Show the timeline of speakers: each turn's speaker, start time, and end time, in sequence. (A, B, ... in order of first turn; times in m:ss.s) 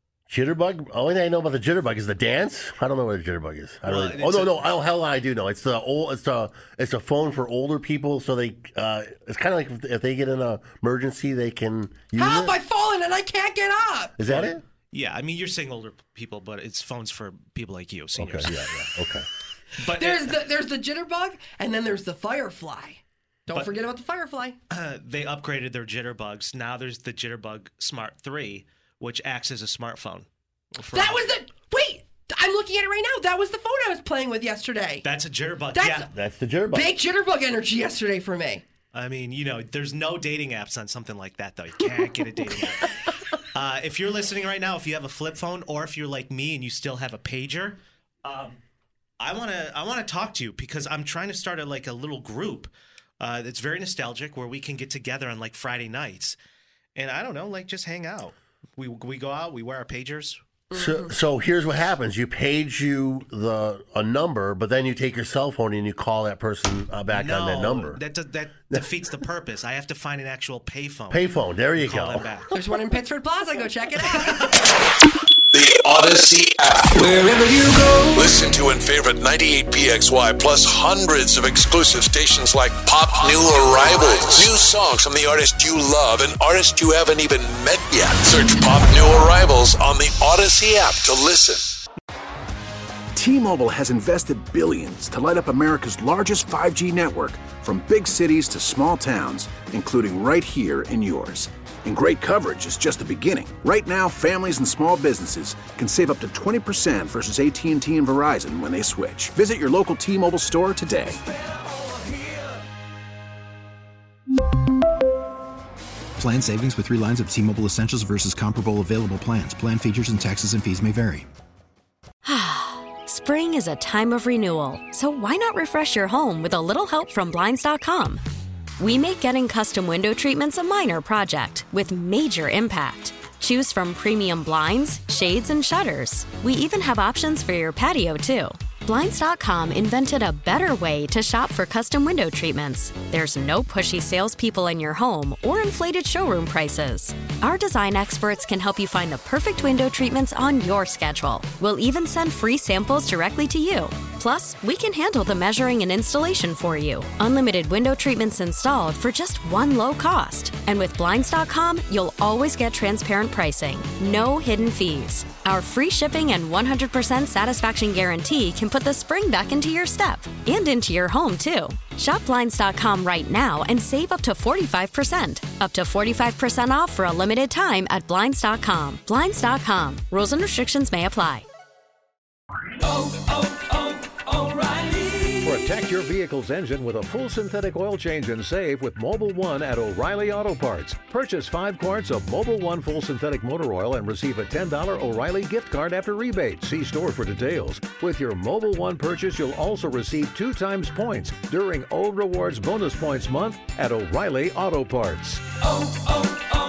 0:00.3-0:12.6 A
0:03.8-0:04.8 B
0:12.2-0:14.2 C
0:14.2-0:14.6 A
0:14.2-0:18.6 B
0:18.2-0:19.3 A
0:19.8-0:20.4 B
0:19.9-0:24.6 C
0:24.7-0:31.3 B
0:30.9-0:35.0 C
0:35.0-0:36.1 B
0:35.7-0:36.1 C
0:36.1-0:36.9 A
0:36.7-0:38.6 C
0:38.9-0:48.6 B
0:49.2-0:56.4 B
0:57.0-1:00.4 B
1:00.7-1:01.2 C
1:00.7-1:08.0 A
1:07.1-1:12.5 B
1:11.1-1:12.2 A
1:12.5-1:14.5 C
1:15.5-1:17.1 D
1:18.1-1:31.7 D
1:33.2-1:51.2 E
1:56.2-2:01.2 F
2:02.3-2:08.2 G
2:08.8-3:01.4 G
3:05.4-3:25.4 H